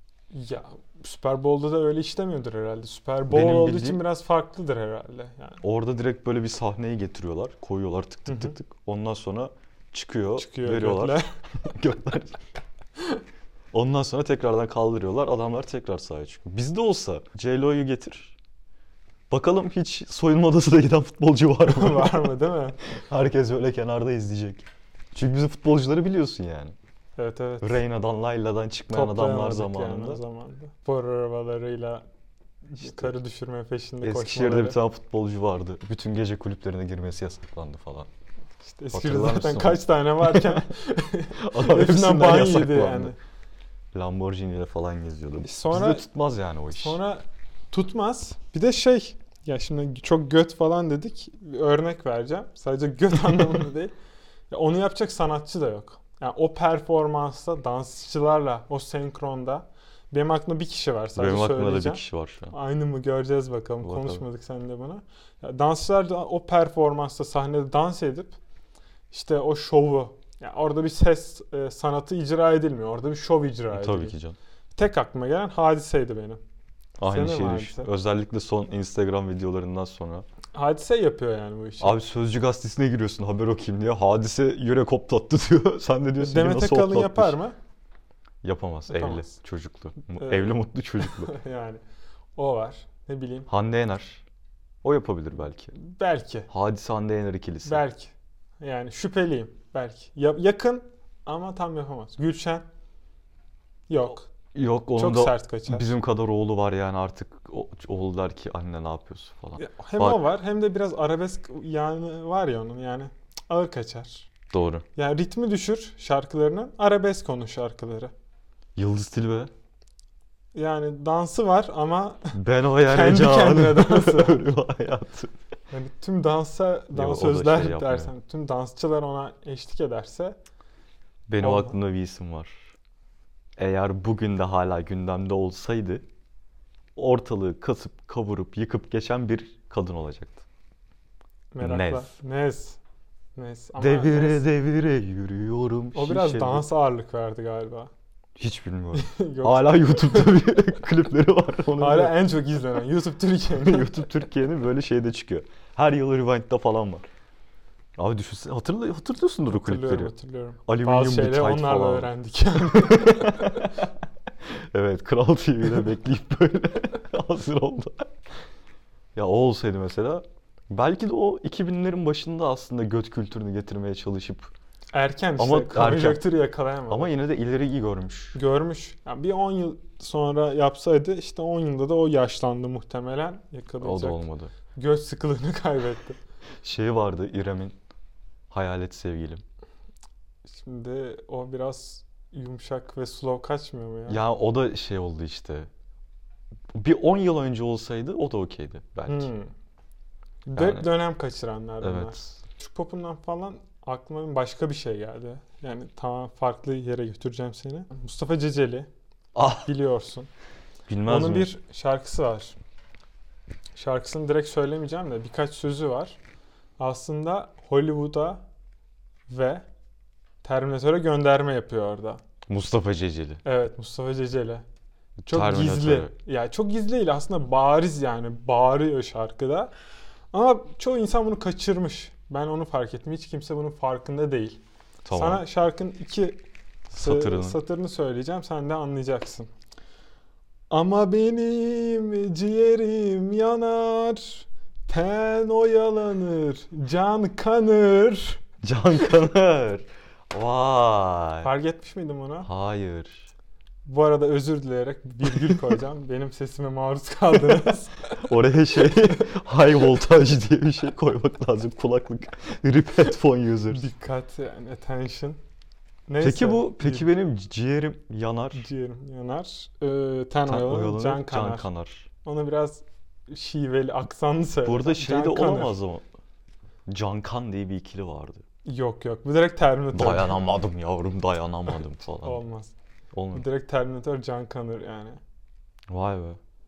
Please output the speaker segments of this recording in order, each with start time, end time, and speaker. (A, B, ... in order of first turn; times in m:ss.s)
0:00.3-0:05.6 A
0:03.3-0:04.0 B
0:05.6-0:12.4 B
0:08.3-0:08.6 A
0:10.4-0:11.3 A
0:13.7-0:18.4 B
0:19.3-0:22.3 B
0:21.6-0:22.8 A
0:22.9-0:26.7 B
0:27.2-0:27.8 A
0:27.6-0:30.2 B
0:28.9-0:32.0 A
0:32.7-0:34.8 A
0:32.8-0:33.1 B
0:34.0-0:38.1 B
0:38.6-0:43.2 A
0:38.9-0:40.7 B
0:41.4-0:43.1 B
0:43.9-0:47.0 B
0:45.4-0:46.0 A
0:46.7-0:53.9 A
0:54.5-1:08.4 A
1:01.2-1:02.5 B
1:03.8-1:04.2 B
1:09.1-1:14.1 A
1:13.7-1:14.4 B
1:14.8-1:16.4 A
1:17.0-1:20.2 B
1:17.0-1:17.9 A
1:20.5-1:22.0 A
1:21.8-1:27.4 B
1:26.2-1:27.6 A
1:28.4-1:31.3 B
1:28.9-1:29.3 A
1:30.2-1:31.8 A
1:32.4-1:33.5 A
1:33.5-1:34.2 B
1:34.8-1:35.7 B
1:35.7-1:36.5 A
1:36.5-1:37.8 B
1:37.6-1:42.6 A
1:43.9-1:44.3 A
1:44.5-1:50.3 B
1:45.0-1:45.9 A
1:49.6-1:54.3 A
1:54.5-1:54.8 B
1:55.0-1:58.1 A
1:58.8-1:59.5 B
2:00.5-2:04.5 A
2:02.3-2:05.3 B
2:05.7-2:10.4 A
2:06.9-2:08.1 B
2:11.3-2:12.7 B
2:11.4-2:11.7 A
2:13.6-2:16.0 B
2:17.0-2:20.4 B
2:21.5-2:22.8 A
2:21.6-2:22.1 B
2:23.4-2:24.4 A
2:23.8-2:26.6 B
2:25.9-2:27.9 A
2:28.4-2:32.2 B
2:28.9-2:30.5 A
2:31.8-2:34.1 A
2:33.5-2:37.0 B
2:38.0-2:40.1 B
2:39.5-2:43.5 A
2:40.6-2:42.1 B
2:42.7-2:43.8 B
2:44.5-2:48.1 B
2:49.1-2:54.5 B
2:54.9-2:57.1 A
2:55.4-2:56.3 B
2:56.9-2:58.4 B
2:58.3-3:06.2 A
3:03.8-3:04.5 B
3:06.6-3:07.7 B
3:08.5-3:09.4 B
3:10.5-3:14.2 A
3:14.1-3:15.7 B
3:16.7-3:19.3 B
3:19.1-3:19.5 A
3:20.5-3:28.9 A
3:20.5-3:20.9 B
3:21.8-3:22.4 B
3:29.3-3:29.7 B
3:29.6-3:30.3 A
3:30.9-3:31.5 B
3:31.0-3:32.6 A
3:33.8-3:36.2 A
3:36.8-3:38.4 A
3:39.3-3:39.6 A
3:40.4-3:42.2 A
3:42.5-3:43.4 B
3:43.4-3:44.6 A
3:45.2-3:46.1 B
3:45.3-3:49.7 A
3:50.3-3:54.6 A
3:55.0-3:55.4 B
3:55.1-3:59.5 A
3:56.9-3:57.6 B
4:00.7-4:08.4 A
4:08.6-4:11.5 B
4:11.4-4:12.5 A
4:12.4-4:13.3 B
4:13.8-4:18.2 A
4:15.2-4:15.6 B
4:18.2-4:23.9 B
4:23.7-4:25.4 A
4:26.1-4:27.1 A
4:26.2-4:28.6 B
4:28.5-4:31.7 A
4:30.4-4:32.1 B
4:32.2-4:35.8 A
4:34.6-4:36.0 B
4:36.9-4:38.4 B
4:38.6-4:40.4 A
4:39.9-4:42.4 B
4:42.2-4:42.7 A
4:43.1-4:43.4 B
4:43.3-4:45.2 A
4:45.9-4:46.4 B